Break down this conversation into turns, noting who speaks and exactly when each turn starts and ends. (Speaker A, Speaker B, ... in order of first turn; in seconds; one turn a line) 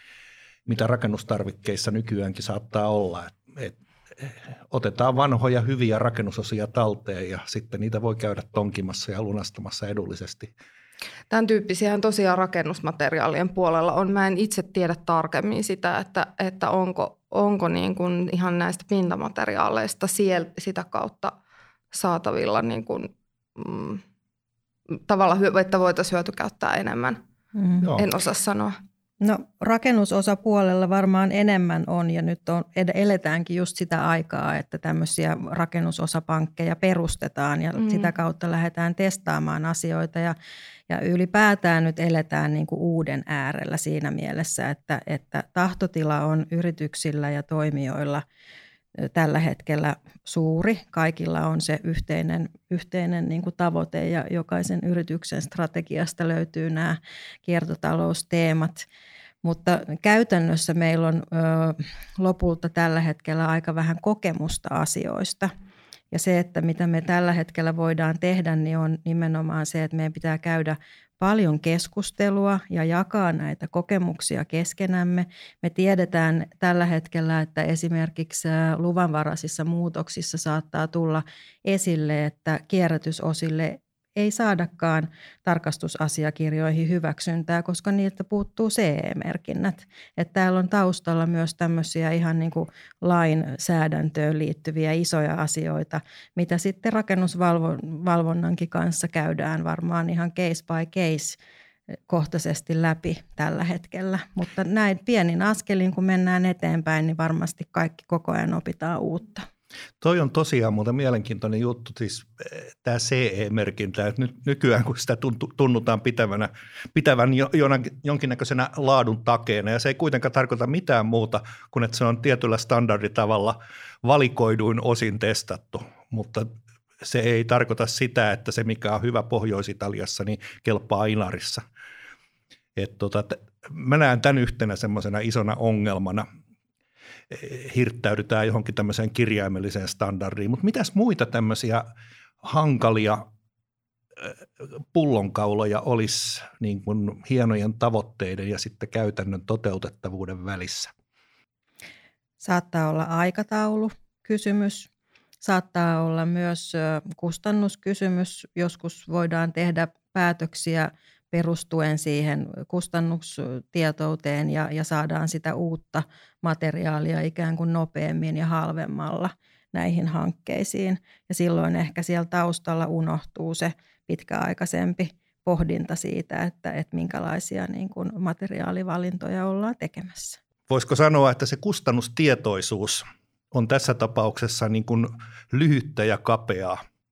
Speaker A: 0.7-10.5
Speaker B: 11.3-21.3
Speaker B: 21.9-24.0
Speaker B: 25.0-27.2
Speaker C: 27.6-27.9
Speaker B: 28.0-28.8
Speaker C: 29.2-40.4
Speaker B: 37.8-38.1
Speaker C: 40.9-48.2
Speaker C: 49.0-58.9
Speaker C: 59.4-65.5
Speaker C: 66.1-101.4
Speaker C: 102.1-109.5
Speaker A: 110.0-126.5
Speaker A: 127.0-131.6
Speaker A: 132.8-136.2
Speaker A: 137.3-141.8
Speaker A: 142.4-143.2
Speaker A: 144.9-150.9
Speaker C: 152.4-154.9
Speaker C: 155.4-180.4
Speaker A: 180.7-186.8